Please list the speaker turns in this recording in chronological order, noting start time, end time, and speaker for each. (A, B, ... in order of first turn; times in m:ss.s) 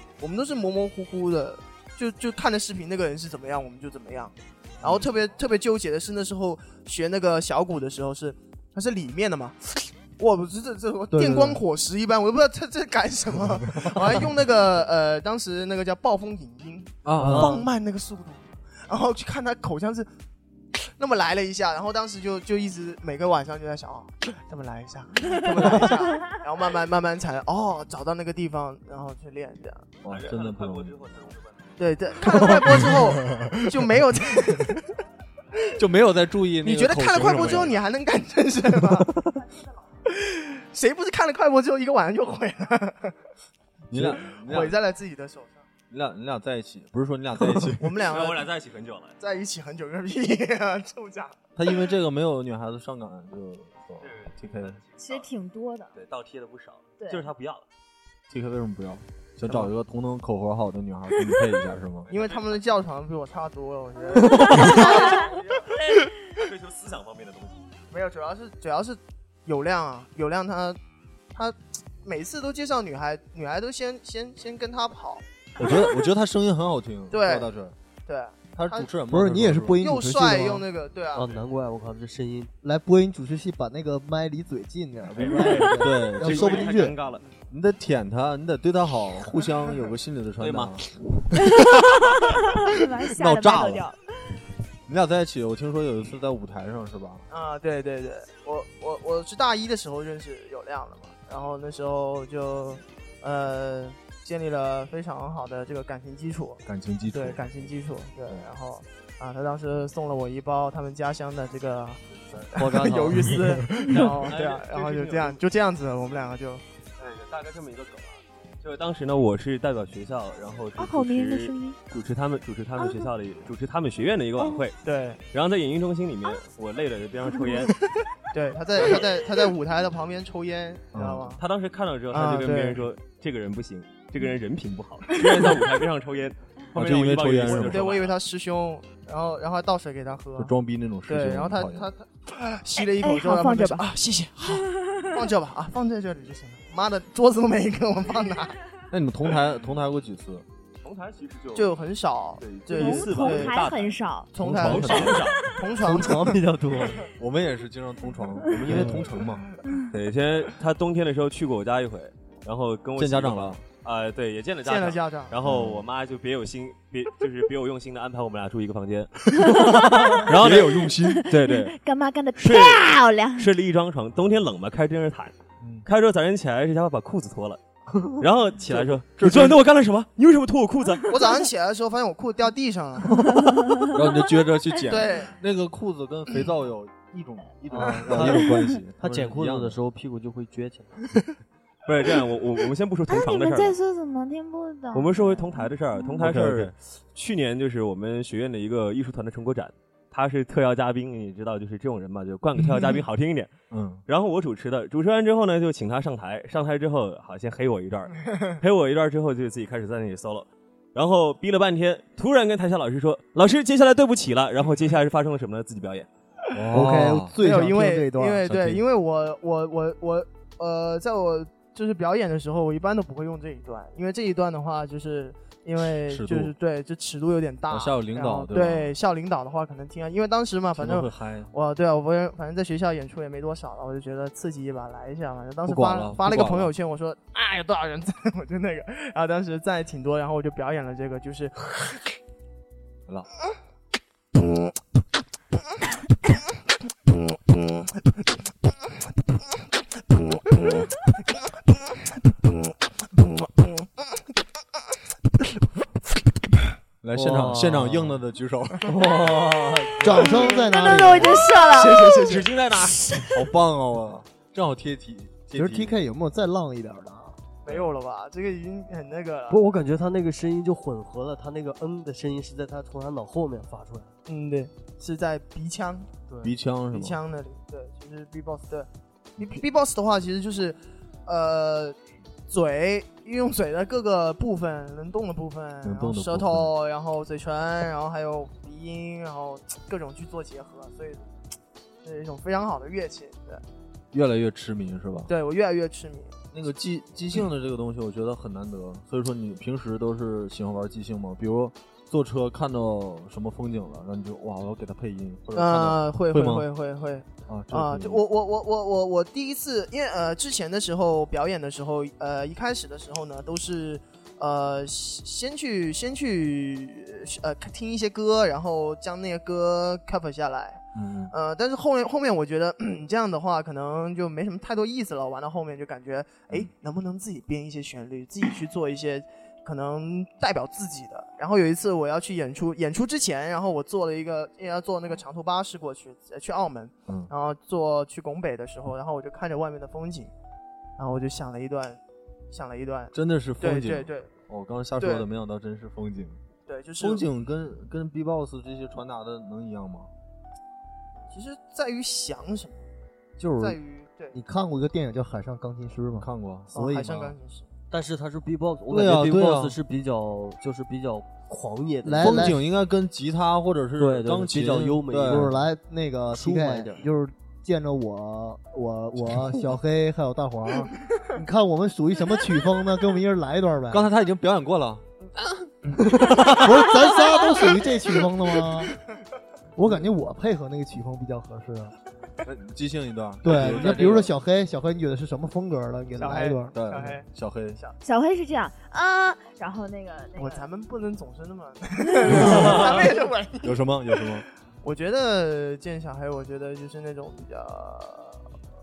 0:00.2-0:20.1 A
0:11.1-0:11.6 B
0:17.0-0:17.6 C
0:17.2-0:17.5 B
0:17.2-0:17.6 D
0:20.8-0:29.9 A
0:30.0-0:31.0 C
0:30.1-0:32.2 E
0:31.8-0:34.8 A
0:32.3-0:33.5 C
0:35.8-0:37.8 C
0:36.6-0:39.2 A
0:37.3-0:37.7 E
0:40.1-0:43.2 A
0:43.9-0:44.8 C
0:43.9-0:45.6 A
0:45.9-0:47.9 C
0:47.8-0:48.4 A
0:48.1-0:49.2 E
0:49.2-0:51.4 A
0:51.6-0:54.8 C
0:54.0-0:55.3 E
0:55.0-0:55.9 F
0:55.9-0:57.6 E
0:57.0-0:57.2 F
0:58.3-1:02.1 C
0:59.5-0:59.7 A
1:02.1-1:02.6 E
1:02.1-1:05.6 A
1:04.6-1:07.7 E
1:04.6-1:05.0 F
1:07.9-1:10.8 A
1:11.3-1:15.7 A
1:15.6-1:17.8 C
1:17.1-1:17.5 A
1:18.1-1:18.9 A
1:18.6-1:19.8 C
1:19.1-1:20.7 B
1:19.8-1:21.3 A
1:21.1-1:22.5 D
1:22.6-1:27.0 B
1:25.2-1:27.2 E
1:25.2-1:26.9 C
1:27.5-1:30.8 C
1:30.4-1:30.8 E
1:31.4-1:34.0 F
1:33.2-1:33.9 C
1:34.9-1:37.2 C
1:37.3-1:52.0 A
1:46.6-1:47.7 C
1:52.5-1:56.6 A
1:52.5-1:53.6 D
1:53.1-1:53.6 C
1:54.0-1:55.4 E
1:57.0-2:04.8 E
2:00.8-2:01.8 F
2:04.8-2:05.2 A
2:05.3-2:07.8 E
2:08.3-2:11.4 A
2:08.8-2:09.2 E
2:10.9-2:11.4 C
2:11.4-2:18.2 E
2:12.1-2:12.8 A
2:16.7-2:18.0 C
2:17.4-2:20.5 A
2:20.4-2:21.9 C
2:21.1-2:28.6 A
2:22.9-2:23.9 F
2:28.9-2:30.4 C
2:30.8-2:31.8 E
2:31.6-2:33.6 A
2:32.4-2:35.6 E
2:32.8-2:34.3 F
2:34.3-2:36.4 A
2:34.4-2:36.1 C
2:35.8-2:37.1 D
2:36.7-2:39.6 C
2:38.7-2:39.0 D
2:38.7-2:39.0 B
2:39.9-2:49.6 E
2:43.0-2:43.6 C
2:44.6-2:45.3 A
2:45.4-2:45.8 C
2:49.4-2:51.2 C
2:49.5-2:50.3 F
2:50.1-2:51.8 E
2:50.9-2:53.5 F
2:52.4-2:55.3 E
2:55.8-2:57.6 E
2:58.2-3:01.2 E
2:58.6-2:59.6 C
3:01.1-3:03.2 A
3:03.4-3:03.9 F
3:03.9-3:09.8 C
3:04.9-3:05.3 A
3:07.7-3:11.1 D
3:11.9-3:13.8 E
3:13.1-3:16.2 F
3:14.9-3:23.5 E
3:16.2-3:16.7 C
3:23.7-3:24.0 C
3:24.1-3:36.1 E
3:36.5-3:37.4 C
3:36.7-3:38.5 B
3:37.4-4:01.9 A
3:38.5-3:38.8 C
3:46.0-3:46.5 C
3:47.7-3:48.9 C
3:50.8-3:51.5 C
3:55.7-3:56.7 C
4:10.5-4:10.9 A
4:13.6-4:13.9 A
4:17.0-4:20.4 C
4:17.2-4:18.1 D
4:18.8-4:20.2 D
4:20.0-4:21.5 B
4:20.4-4:22.3 F
4:21.6-4:22.5 A
4:22.3-4:23.1 E
4:23.3-4:26.0 C
4:25.6-4:27.4 B
4:27.6-4:29.6 A
4:29.5-4:34.1 D
4:34.3-4:36.1 A
4:36.3-4:36.6 D
4:36.4-4:37.2 C
4:36.9-4:42.0 A
4:42.5-4:51.3 A
4:45.8-4:46.7 C
4:52.0-4:53.6 A
4:54.1-4:55.3 C
4:55.3-4:56.3 A
4:56.5-5:06.7 C
5:05.6-5:40.3 A
5:07.5-5:08.2 C
5:21.0-5:21.3 C
5:41.0-5:44.3 A
5:43.1-5:46.4 C
5:45.0-5:45.3 A
5:46.7-5:47.2 A
5:47.0-5:50.1 C
5:51.3-5:52.8 A
5:53.4-5:53.8 B
5:53.6-5:54.4 A
5:54.3-5:57.2 B
5:56.2-5:57.3 C
5:56.7-5:57.7 A
5:57.9-6:02.6 D
5:58.9-5:59.8 C
6:02.0-6:02.6 B
6:02.2-6:05.6 C
6:04.0-6:05.5 D
6:05.2-6:14.1 B
6:06.5-6:06.8 D
6:13.9-6:15.1 C
6:15.9-6:16.9 C
6:15.9-6:19.0 B
6:19.8-6:22.0 B
6:22.4-6:24.3 C
6:23.4-6:26.8 B
6:26.2-6:28.0 A
6:26.7-6:27.8 C
6:28.0-6:30.7 F
6:30.4-6:33.8 A
6:32.2-6:32.8 F
6:32.3-6:33.0 C
6:33.6-6:34.5 C
6:34.8-6:38.4 A